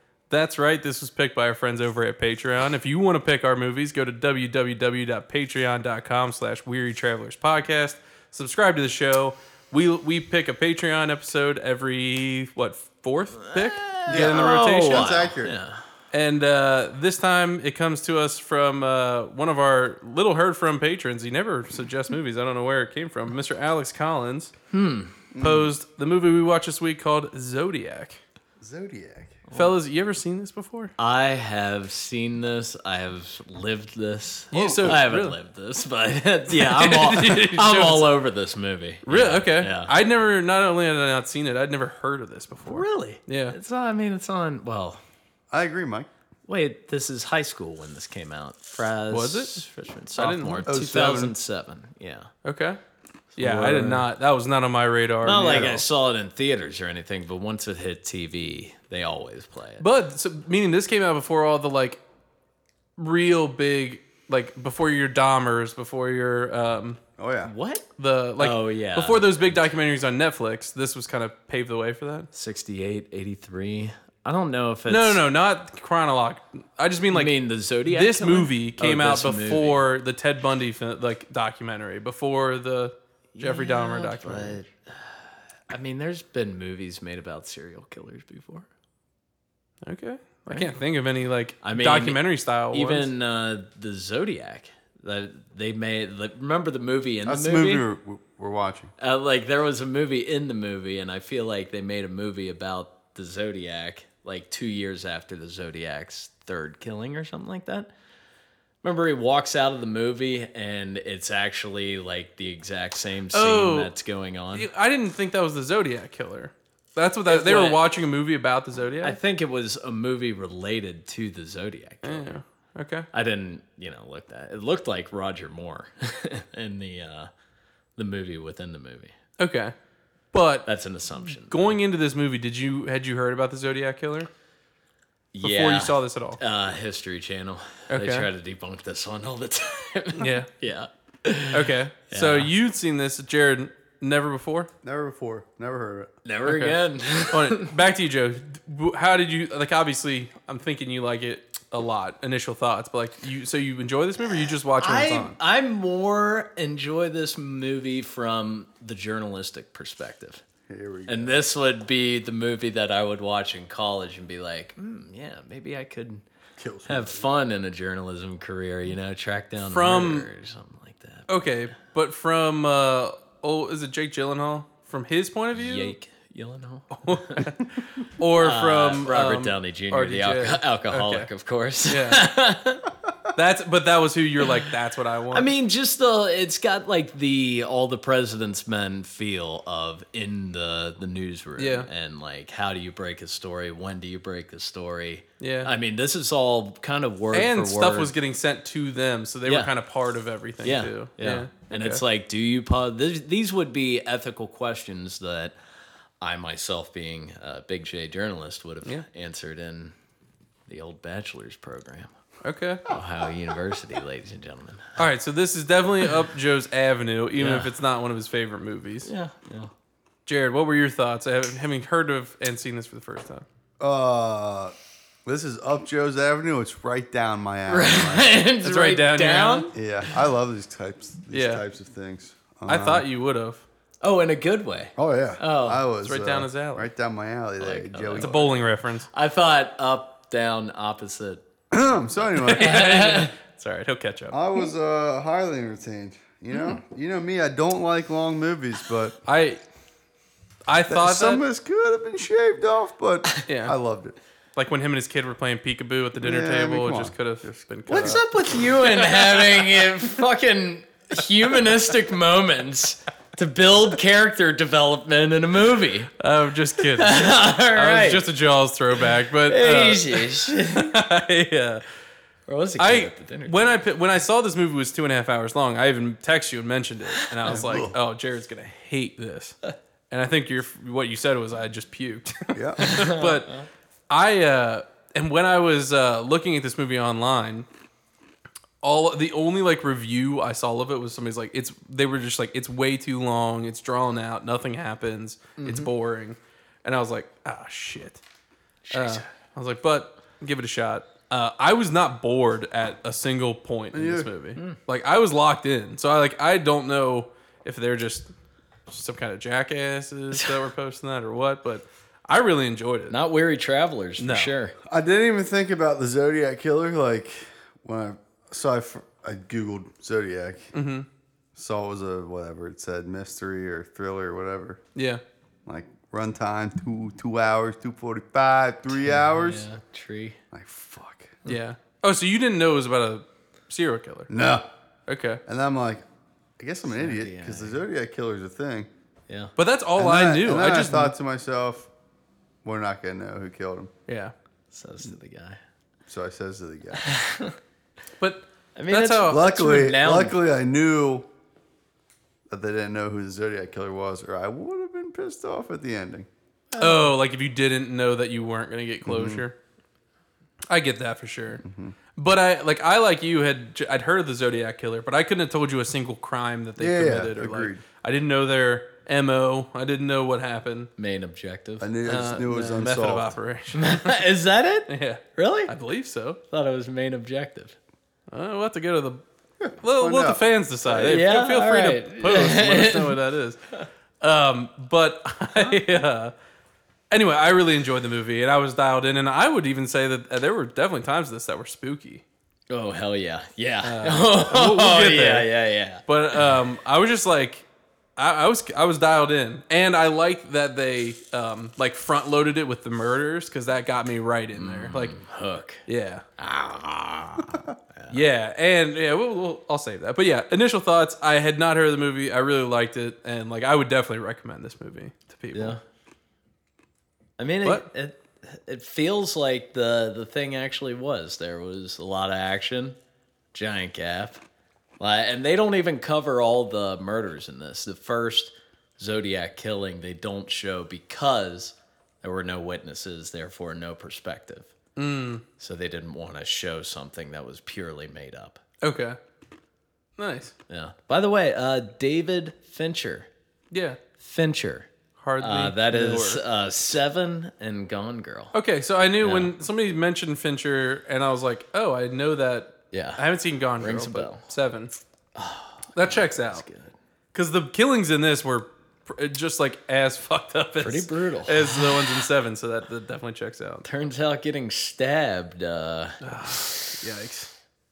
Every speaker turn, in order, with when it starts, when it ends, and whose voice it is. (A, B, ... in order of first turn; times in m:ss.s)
0:00.3-0:15.3 A
0:13.4-0:15.8 B
0:14.1-0:15.5 C
0:16.1-0:24.5 A
0:24.7-0:25.2 B
0:25.3-0:25.7 C
0:25.4-0:28.2 A
0:28.6-0:29.4 C
0:29.5-0:29.7 B
0:29.5-0:30.9 A
0:31.0-0:39.9 B
0:34.5-0:35.4 A
0:34.5-0:35.0 C
0:36.5-0:38.1 A
0:39.1-0:43.6 A
0:42.6-0:45.0 B
0:45.5-0:46.1 C
0:46.5-0:52.3 B
0:49.1-0:51.3 A
0:50.7-0:51.3 C
0:52.4-0:52.8 A
0:53.4-0:54.1 B
0:53.4-0:55.8 A
0:55.2-0:59.8 B
0:55.4-0:55.8 C
0:59.8-1:02.0 A
1:03.0-1:07.0 A
1:07.2-1:07.5 C
1:07.4-1:07.9 B
1:08.0-1:12.3 A
1:08.4-1:09.6 B
1:12.3-1:15.2 B
1:14.9-1:24.6 A
1:17.1-1:19.8 B
1:23.4-1:28.7 B
1:29.8-1:33.1 A
1:30.5-1:30.7 B
1:31.6-1:32.2 B
1:32.7-1:37.8 B
1:37.3-1:38.9 C
1:39.0-1:47.9 B
1:48.8-1:54.7 B
1:53.3-1:53.9 A
1:54.5-1:59.2 A
1:57.3-1:57.8 B
1:59.0-2:02.4 B
2:02.0-2:03.1 A
2:03.1-2:07.3 B
2:08.0-2:09.2 B
2:09.4-2:09.7 A
2:10.3-2:14.3 A
2:10.7-2:11.7 B
2:15.3-2:22.5 B
2:15.4-2:16.4 A
2:17.9-2:18.3 A
2:20.2-2:20.5 A
2:21.5-2:24.7 A
2:24.8-2:26.1 C
2:26.2-2:27.7 B
2:26.5-2:26.8 A
2:27.3-2:35.4 A
2:34.3-2:40.4 B
2:40.7-2:41.4 C
2:41.1-2:46.3 B
2:46.6-2:47.2 C
2:46.8-2:51.3 B
2:49.7-2:50.3 A
2:51.3-2:55.9 A
2:55.6-2:57.5 B
2:57.0-3:01.3 A
2:58.4-3:02.9 B
3:01.9-3:02.3 A
3:03.4-3:05.5 A
3:04.4-3:04.7 B
3:05.3-3:18.1 B
3:11.6-3:11.9 A
3:15.4-3:15.7 A
3:17.3-3:22.0 A
3:19.5-3:19.7 B
3:20.6-3:25.6 B
3:26.2-3:30.0 B
3:30.7-3:32.1 B
3:32.4-3:32.9 A
3:32.9-3:35.0 B
3:35.0-3:39.1 A
3:37.4-3:37.8 B
3:39.0-3:39.7 B
3:40.3-3:43.4 A
3:43.8-3:44.7 C
3:45.2-3:48.3 C
3:47.7-3:50.2 B
3:48.6-3:49.7 A
3:49.7-3:53.1 C
3:51.3-3:51.6 A
3:52.7-3:53.6 A
3:54.0-3:55.8 B
3:55.0-3:58.6 C
3:56.0-3:56.9 A
3:57.6-3:58.4 B
3:58.2-3:59.1 A
3:59.1-4:01.4 B
4:01.7-4:02.9 C
4:02.3-4:04.4 A
4:02.5-4:03.3 B
4:04.3-4:09.2 C
4:06.5-4:06.8 B
4:09.3-4:09.6 A
4:10.7-4:11.4 A
4:10.9-4:14.2 C
4:13.5-4:13.8 A
4:14.6-4:18.2 A
4:16.2-4:18.2 C
4:17.9-4:26.1 B
4:19.2-4:19.5 A
4:26.2-4:31.8 A
4:27.0-4:28.3 B
4:29.5-4:31.0 B
4:32.5-4:33.8 B
4:32.8-4:39.6 A
4:37.2-4:37.6 B
4:37.5-4:37.9 C
4:40.1-4:43.5 A
4:42.5-4:42.9 C
4:42.8-4:43.7 B
4:44.1-4:47.7 A
4:48.8-4:58.2 A
4:55.6-4:55.9 B
4:58.9-4:59.3 B
4:58.9-5:08.3 A
5:03.9-5:04.3 C
5:04.6-5:04.8 B
5:08.9-5:13.2 A
5:13.1-5:14.7 B
5:14.2-5:14.5 A
5:14.9-5:20.7 C
5:20.7-5:21.1 A
5:21.6-5:24.8 C
5:25.0-5:25.2 A
5:25.7-5:29.7 C
5:29.1-5:30.4 B
5:30.5-5:31.4 C
5:31.4-5:34.3 A
5:34.3-5:34.7 C
5:35.1-5:35.4 A
5:35.5-5:36.1 C
5:36.6-5:38.9 C
5:36.9-5:37.8 B
5:39.3-5:39.5 B
5:39.6-5:41.1 A
5:40.0-5:41.9 C
5:42.6-5:43.9 C
5:44.1-5:44.3 A
5:44.7-5:45.6 B
5:46.1-5:47.0 C
5:47.0-5:47.6 B
5:48.2-5:49.5 A
5:48.8-5:50.4 B
5:49.3-5:51.3 C
5:52.5-5:56.3 C
5:56.7-5:57.1 B
5:56.8-5:59.6 A
5:59.0-5:59.4 C
6:00.7-6:01.6 A
6:01.6-6:02.0 C
6:02.2-6:10.9 A
6:06.8-6:07.8 C
6:11.0-6:12.8 B
6:11.8-6:13.4 C
6:12.1-6:14.3 A
6:13.8-6:15.7 B
6:14.9-6:16.4 A
6:16.5-6:17.8 B
6:18.3-6:19.2 A
6:19.6-6:20.4 C
6:19.8-6:23.6 A
6:20.9-6:23.2 B
6:24.2-6:26.3 A
6:27.1-6:32.2 A
6:32.7-6:36.6 B
6:33.8-6:35.5 A
6:36.1-6:37.6 A
6:38.2-6:45.1 A
6:44.5-6:45.8 B
6:45.9-6:46.2 A
6:46.4-6:48.2 B
6:48.1-6:55.8 A
6:55.5-6:55.8 B
6:57.4-7:03.0 B
7:03.5-7:04.4 B
7:05.0-7:14.7 B
7:15.0-7:15.4 A
7:15.6-7:18.6 B
7:18.8-7:19.2 A
7:20.2-7:20.6 A
7:20.7-7:23.3 B
7:23.7-7:24.0 A
7:24.2-7:28.5 B
7:25.2-7:26.4 A
7:28.5-7:34.9 A
7:29.2-7:29.5 B
7:32.9-7:33.2 B
7:33.8-7:34.4 B
7:35.4-7:37.0 B
7:36.0-7:36.6 A
7:37.3-7:43.9 A
7:40.8-7:42.2 B
7:43.8-7:47.0 B
7:46.2-7:47.5 A